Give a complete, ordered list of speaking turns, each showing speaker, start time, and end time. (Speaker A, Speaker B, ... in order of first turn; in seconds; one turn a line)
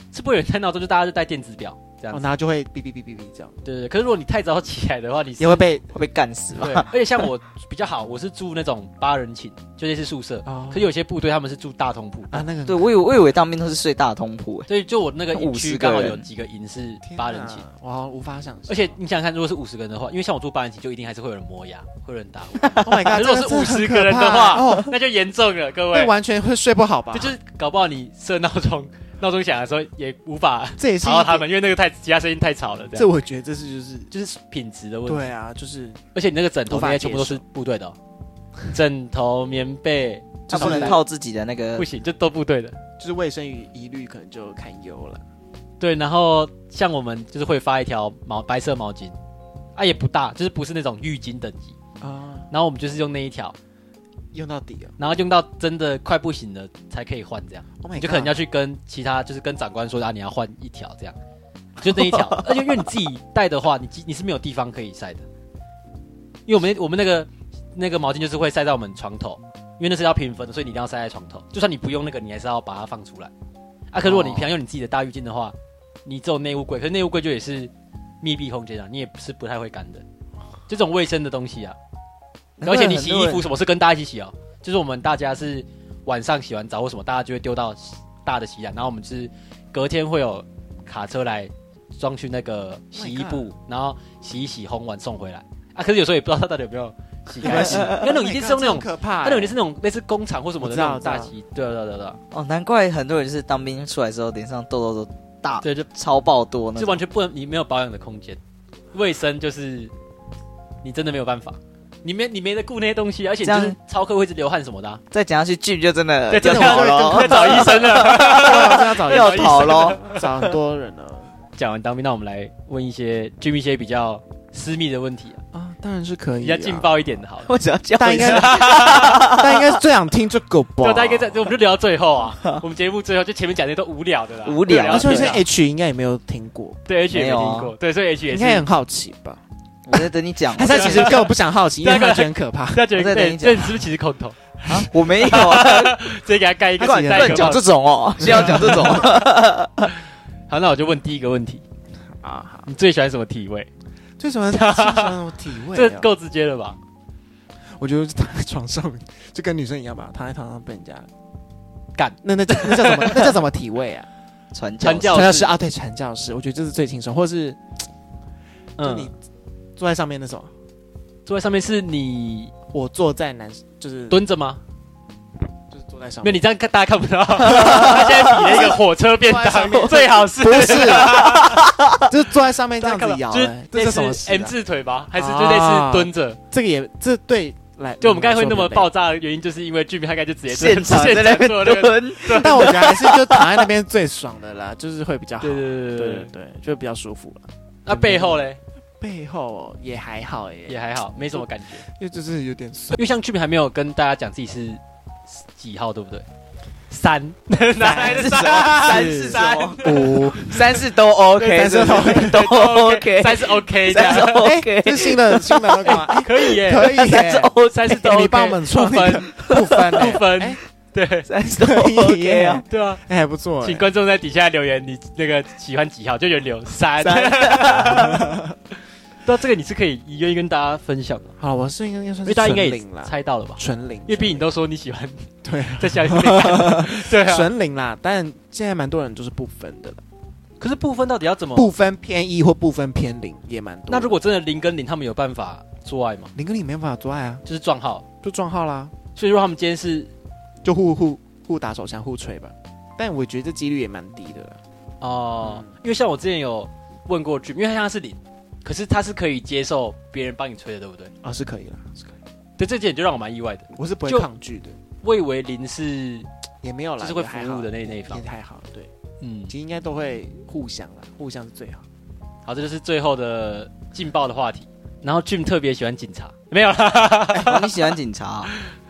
Speaker A: 0.1-2.2
Speaker B: 2.1-3.5
Speaker A: 3.6-5.7
Speaker B: 5.4-5.9
Speaker C: 5.9-6.9
Speaker A: 6.6-12.4
Speaker B: 10.4-10.9
Speaker B: 12.3-12.9
Speaker C: 12.7-14.7
Speaker A: 14.7-17.6
Speaker C: 15.3-16.2
Speaker B: 17.0-18.9
Speaker A: 18.7-26.1
Speaker B: 22.8-24.9
Speaker B: 25.9-27.4
Speaker A: 27.1-33.1
Speaker B: 30.8-31.5
Speaker B: 32.9-34.1
Speaker A: 34.1-35.3
Speaker B: 35.0-36.0
Speaker A: 36.1-38.0
Speaker B: 36.7-37.4
Speaker A: 38.7-41.0
Speaker B: 40.5-41.0
Speaker C: 40.5-41.9
Speaker A: 41.8-42.8
Speaker B: 43.0-45.2
Speaker A: 45.8-49.1
Speaker A: 49.8-51.8
Speaker B: 52.0-52.5
Speaker A: 52.5-53.5
Speaker B: 54.3-55.0
Speaker A: 55.0-61.1
Speaker B: 57.8-58.4
Speaker A: 61.8-65.2
Speaker A: 66.5-73.3
Speaker A: 73.9-80.0
Speaker C: 74.0-74.5
Speaker A: 80.7-81.8
Speaker C: 82.6-83.5
Speaker A: 82.6-102.2
Speaker B: 92.9-93.5
Speaker B: 97.4-99.5
Speaker C: 97.7-98.0
Speaker B: 100.6-101.3
Speaker C: 102.3-107.0
Speaker A: 105.6-105.9
Speaker A: 106.8-108.4
Speaker A: 108.9-109.9
Speaker A: 110.8-115.0
Speaker C: 113.4-113.8
Speaker C: 115.1-120.1
Speaker A: 116.3-120.3
Speaker B: 116.3-121.3
Speaker A: 121.5-125.4
Speaker B: 125.5-126.9
Speaker A: 126.4-127.5
Speaker C: 127.4-129.8
Speaker B: 128.0-131.5
Speaker A: 128.1-129.3
Speaker A: 130.8-135.4
Speaker C: 134.4-135.4
Speaker B: 134.9-136.8
Speaker A: 136.9-138.6
Speaker C: 137.1-137.7
Speaker B: 138.3-139.4
Speaker C: 139.9-141.1
Speaker B: 140.5-142.9
Speaker A: 140.7-141.3
Speaker A: 141.8-144.4
Speaker C: 142.9-143.7
Speaker C: 144.7-146.0
Speaker A: 145.2-147.7
Speaker B: 146.8-147.6
Speaker C: 146.9-149.9
Speaker B: 148.2-149.2
Speaker A: 148.2-149.2
Speaker A: 150.5-151.6
Speaker B: 152.2-152.7
Speaker A: 152.7-153.7
Speaker B: 154.2-156.1
Speaker A: 154.5-156.8
Speaker B: 157.8-161.1
Speaker A: 161.9-163.4
Speaker B: 162.2-164.1
Speaker C: 164.5-165.3
Speaker A: 164.8-165.5
Speaker B: 165.1-167.6
Speaker A: 168.8-169.1
Speaker B: 168.8-169.1
Speaker B: 169.8-170.5
Speaker A: 171.2-172.5
Speaker B: 172.7-174.2
Speaker A: 174.1-174.6
Speaker B: 175.7-176.4
Speaker A: 176.2-181.7
Speaker C: 177.4-178.4
Speaker B: 177.5-181.4
Speaker C: 180.9-182.0
Speaker B: 182.0-184.5
Speaker A: 182.8-186.4
Speaker B: 185.1-188.9
Speaker A: 188.0-192.8
Speaker C: 190.5-193.6
Speaker B: 192.3-198.4
Speaker A: 195.4-196.3
Speaker A: 197.8-198.6
Speaker B: 199.0-203.0
Speaker A: 200.7-201.8
Speaker A: 202.9-206.2
Speaker A: 206.9-210.8
Speaker B: 207.8-210.7
Speaker C: 208.0-216.1
Speaker A: 211.4-214.5
Speaker B: 211.5-212.5
Speaker B: 213.9-220.6
Speaker A: 215.8-217.2
Speaker C: 216.8-218.0
Speaker A: 217.7-221.3
Speaker C: 219.5-219.9
Speaker C: 221.2-222.6
Speaker B: 221.5-223.9
Speaker A: 222.7-223.0
Speaker A: 223.6-228.3
Speaker C: 227.0-228.1
Speaker B: 227.9-228.5
Speaker A: 229.2-231.3
Speaker B: 231.4-234.4
Speaker A: 232.2-235.3
Speaker B: 235.4-240.0
Speaker A: 235.8-237.5
Speaker A: 240.6-241.7
Speaker B: 241.5-244.1
Speaker A: 243.9-246.3
Speaker B: 246.3-247.4
Speaker A: 247.4-248.1
Speaker B: 248.2-248.9
Speaker A: 249.2-250.1
Speaker B: 250.6-254.6
Speaker A: 255.0-261.1
Speaker B: 255.4-255.7
Speaker B: 261.2-262.2
Speaker A: 262.6-264.3
Speaker B: 263.7-264.8
Speaker A: 265.0-266.3
Speaker B: 266.6-268.9
Speaker A: 267.0-268.2
Speaker A: 269.2-269.5
Speaker B: 269.5-271.8
Speaker A: 272.4-277.9
Speaker C: 277.4-278.5